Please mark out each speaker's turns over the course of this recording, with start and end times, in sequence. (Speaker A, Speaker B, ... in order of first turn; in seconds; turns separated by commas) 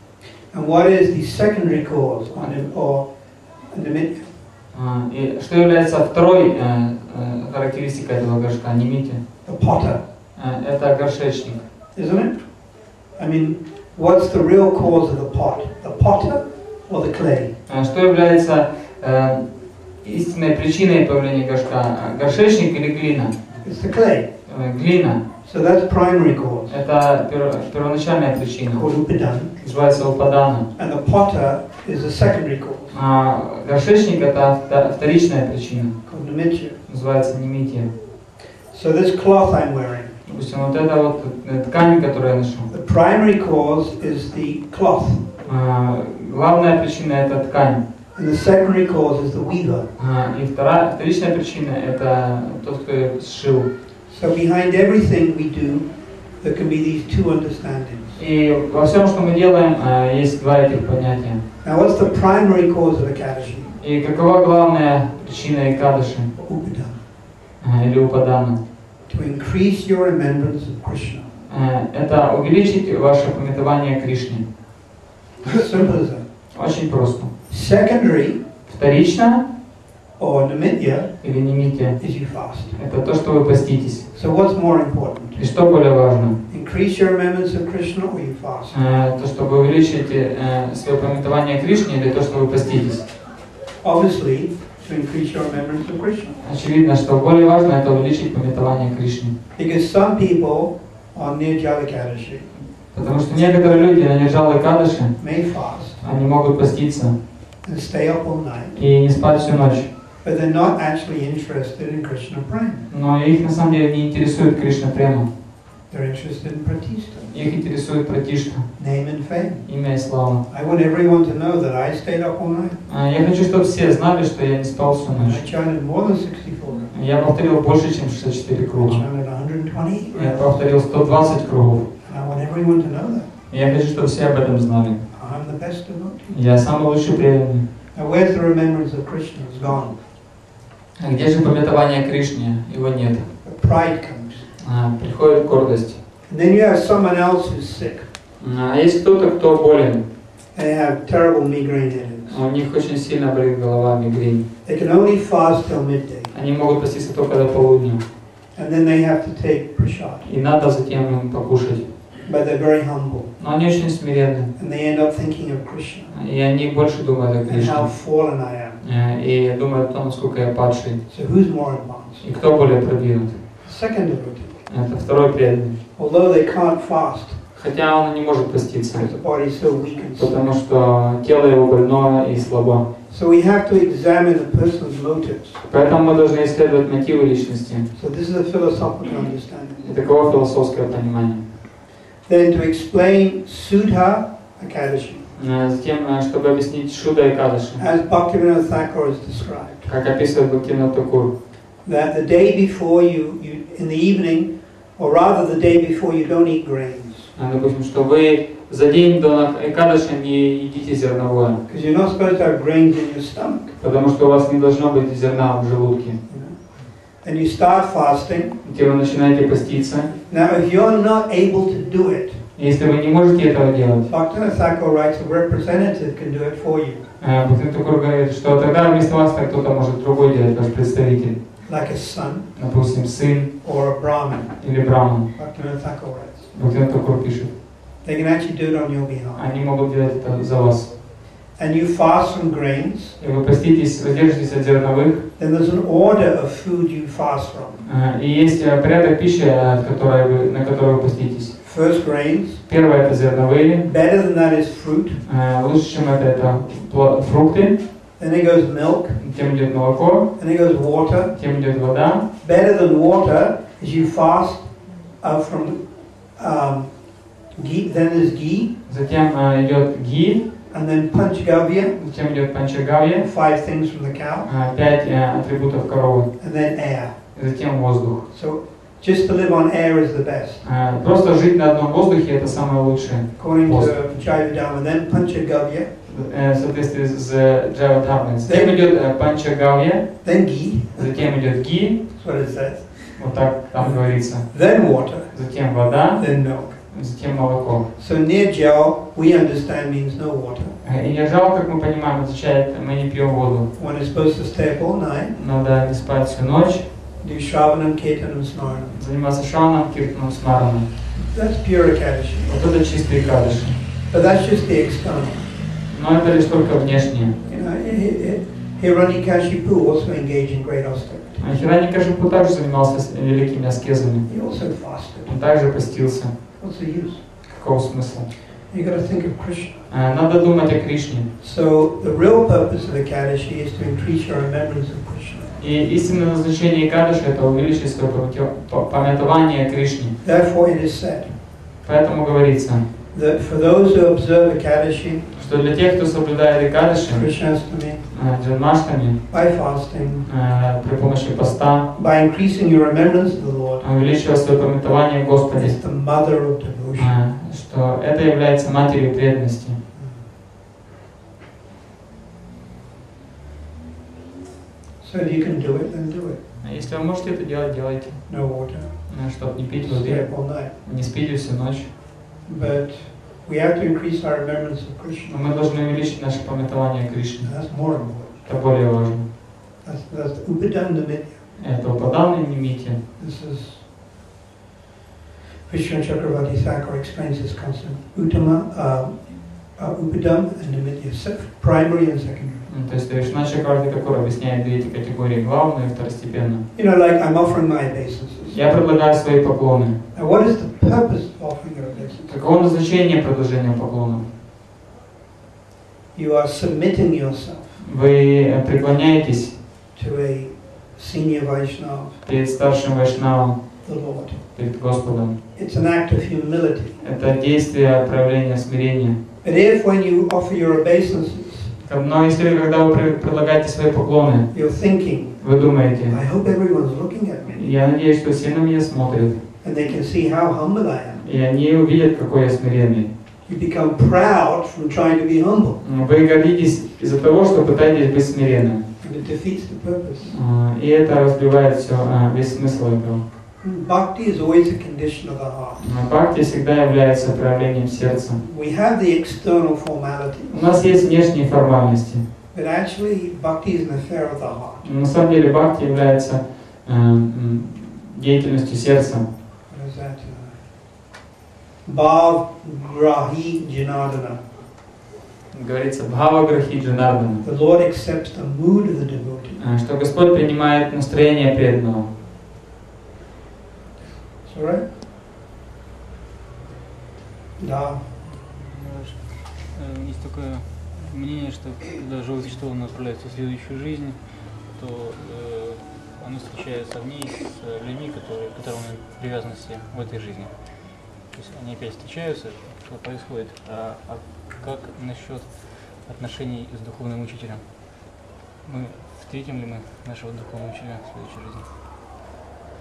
Speaker A: 0.5-4.3, Speaker B: 4.7-9.4, Speaker A: 9.4-10.0, Speaker B: 10.4-11.6, Speaker A: 11.9-17.6, Speaker B: 17.7-23.6, Speaker A: 23.6-24.4, Speaker B: 24.5-25.3, Speaker A: 25.4-26.8, Speaker B: 26.7-30.7, Speaker A: 28.7-29.5, Speaker A: 30.8-33.0, Speaker B: 32.9-36.2, Speaker A: 36.0-36.8, Speaker B: 36.9-37.9, Speaker A: 38.7-40.2, Speaker B: 40.2-42.7, Speaker A: 42.7-45.4, Speaker B: 45.5-47.8, Speaker A: 48.1-49.9, Speaker B: 50.0-53.7, Speaker A: 54.1-58.2, Speaker B: 58.1-61.4, Speaker A: 61.6-63.8, Speaker B: 63.8-66.3, Speaker A: 66.3-67.0, Speaker B: 67.6-68.6, Speaker A: 69.1-71.3, Speaker B: 71.5-74.5, Speaker A: 75.4-76.3, Speaker B: 76.5-77.3, Speaker A: 77.5-78.4, Speaker B: 78.7-79.5, Speaker A: 80.2-81.4, Speaker B: 81.2-84.1, Speaker A: 82.0-82.8, Speaker A: 84.1-85.4, Speaker B: 85.4-86.4, Speaker A: 86.5-88.8, Speaker B: 88.7-93.1, Speaker A: 93.8-96.4, Speaker B: 96.4-99.4, Speaker A: 99.6-102.5, Speaker B: 102.9-107.2, Speaker A: 105.2-106.0, Speaker A: 107.6-108.8, Speaker B: 108.8-109.9, Speaker A: 110.2-112.9, Speaker B: 112.9-115.3, Speaker A: 115.9-117.3, Speaker B: 117.3-118.9, Speaker A: 118.8-122.8, Speaker B: 119.7-120.5, Speaker B: 122.9-125.4, Speaker A: 125.1-127.0, Speaker B: 126.9-129.1, Speaker A: 128.8-130.6, Speaker B: 130.1-131.9, Speaker A: 132.0-133.3, Speaker B: 133.5-135.1, Speaker A: 135.1-136.3, Speaker B: 136.3-137.7, Speaker A: 137.9-140.0, Speaker B: 141.0-143.3, Speaker A: 143.4-144.5, Speaker B: 144.6-146.0, Speaker A: 146.3-148.1, Speaker B: 148.4-150.1, Speaker A: 150.5-152.4, Speaker B: 152.3-154.5, Speaker A: 154.7-156.3, Speaker B: 156.3-158.1, Speaker A: 158.5-160.3, Speaker B: 160.2-162.1, Speaker A: 162.2-163.4, Speaker B: 163.4-164.5, Speaker A: 164.6-166.1, Speaker B: 166.1-171.0, Speaker A: 167.5-168.8, Speaker A: 171.1-172.3, Speaker B: 172.2-173.6, Speaker A: 173.6-174.6, Speaker B: 174.7-175.8, Speaker A: 175.9-177.4, Speaker B: 177.5-179.1, Speaker A: 178.9-180.4, Speaker B: 180.2-182.9, Speaker A: 183.1-185.6, Speaker B: 185.7-187.9, Speaker A: 187.9-190.0, Speaker B: 189.8-191.5, Speaker A: 192.2-195.3, Speaker B: 195.4-197.8, Speaker A: 197.8-199.9, Speaker B: 199.9-201.3, Speaker A: 201.8-207.3, Speaker B: 207.3-211.6, Speaker A: 211.7-213.8, Speaker B: 213.8-216.2, Speaker A: 216.3-218.6, Speaker B: 218.6-220.1, Speaker A: 220.3-222.5, Speaker B: 222.6-224.1, Speaker A: 224.1-227.1, Speaker B: 227.2-231.6, Speaker A: 231.7-232.7, Speaker B: 232.6-233.7, Speaker A: 233.6-236.5, Speaker B: 234.6-235.3, Speaker B: 236.5-237.6, Speaker A: 238.0-239.5, Speaker B: 239.3-240.9, Speaker A: 241.6-243.2, Speaker B: 243.2-245.3, Speaker A: 245.4-247.8, Speaker B: 247.8-251.6, Speaker A: 251.6-252.7, Speaker B: 252.7-253.9, Speaker A: 253.8-255.2, Speaker B: 255.3-257.8, Speaker A: 258.2-259.2, Speaker B: 259.2-260.4, Speaker A: 260.4-261.4, Speaker B: 261.3-262.3, Speaker A: 262.4-268.7, Speaker B: 268.9-270.5, Speaker A: 270.7-272.0, Speaker B: 272.0-273.3, Speaker A: 273.2-274.5, Speaker B: 274.5-278.3, Speaker A: 276.4-277.4, Speaker A: 278.3-280.6, Speaker B: 280.6-284.0, Speaker A: 283.4-285.9, Speaker B: 286.1-292.2, Speaker A: 288.4-288.8, Speaker A: 290.2-296.9, Speaker B: 293.1-297.9, Speaker A: 298.0-300.8, Speaker B: 300.8-303.7, Speaker A: 303.8-305.4, Speaker B: 305.4-306.9, Speaker A: 307.2-309.0, Speaker B: 308.9-310.9, Speaker A: 311.1-312.6, Speaker B: 312.5-313.8, Speaker A: 314.1-315.6, Speaker B: 315.9-317.4, Speaker A: 317.5-321.5, Speaker B: 321.4-326.6, Speaker A: 324.3-325.4, Speaker A: 326.6-327.2, Speaker B: 327.5-328.3, Speaker A: 328.7-329.9, Speaker B: 329.9-331.3, Speaker A: 331.4-335.6, Speaker B: 335.6-340.2, Speaker A: 340.2-341.4, Speaker B: 341.8-342.9, Speaker A: 343.1-345.3, Speaker B: 345.4-349.7, Speaker A: 347.1-348.1, Speaker A: 349.3-350.3, Speaker B: 350.2-351.9, Speaker A: 351.9-353.9, Speaker B: 353.8-355.8, Speaker A: 355.5-357.2, Speaker B: 357.0-359.8, Speaker A: 359.9-360.3, Speaker A: 365.0-366.5, Speaker B: 366.6-371.9, Speaker A: 368.3-370.7, Speaker A: 372.4-375.4, Speaker B: 375.2-379.3, Speaker A: 377.4-378.4, Speaker A: 379.8-381.5, Speaker B: 381.6-383.0, Speaker A: 383.2-383.9, Speaker A: 385.7-392.7, Speaker B: 392.7-396.7, Speaker A: 396.8-398.6, Speaker B: 398.5-400.0, Speaker A: 400.1-402.3, Speaker B: 402.3-404.3, Speaker A: 406.1-407.8, Speaker B: 407.8-409.6, Speaker A: 409.9-412.2, Speaker B: 412.2-415.4, Speaker A: 413.8-414.4, Speaker A: 415.6-417.0, Speaker B: 417.0-419.2, Speaker A: 419.4-421.8, Speaker B: 421.8-426.2, Speaker A: 424.5-427.6, Speaker B: 427.5-429.4, Speaker A: 429.6-431.2, Speaker B: 431.2-433.1, Speaker A: 433.5-435.8, Speaker B: 435.8-438.9, Speaker A: 439.0-440.4, Speaker B: 440.2-443.2, Speaker A: 443.6-445.9, Speaker B: 445.8-448.4, Speaker A: 448.4-450.9, Speaker B: 450.5-452.2, Speaker A: 452.5-454.9, Speaker B: 454.8-459.3, Speaker A: 459.7-460.6, Speaker A: 461.8-464.5, Speaker B: 465.5-467.4, Speaker A: 467.4-469.6, Speaker B: 469.6-472.1, Speaker A: 474.5-474.9, Speaker A: 477.6-478.1, Speaker C: 478.2-497.9, Speaker C: 498.6-501.7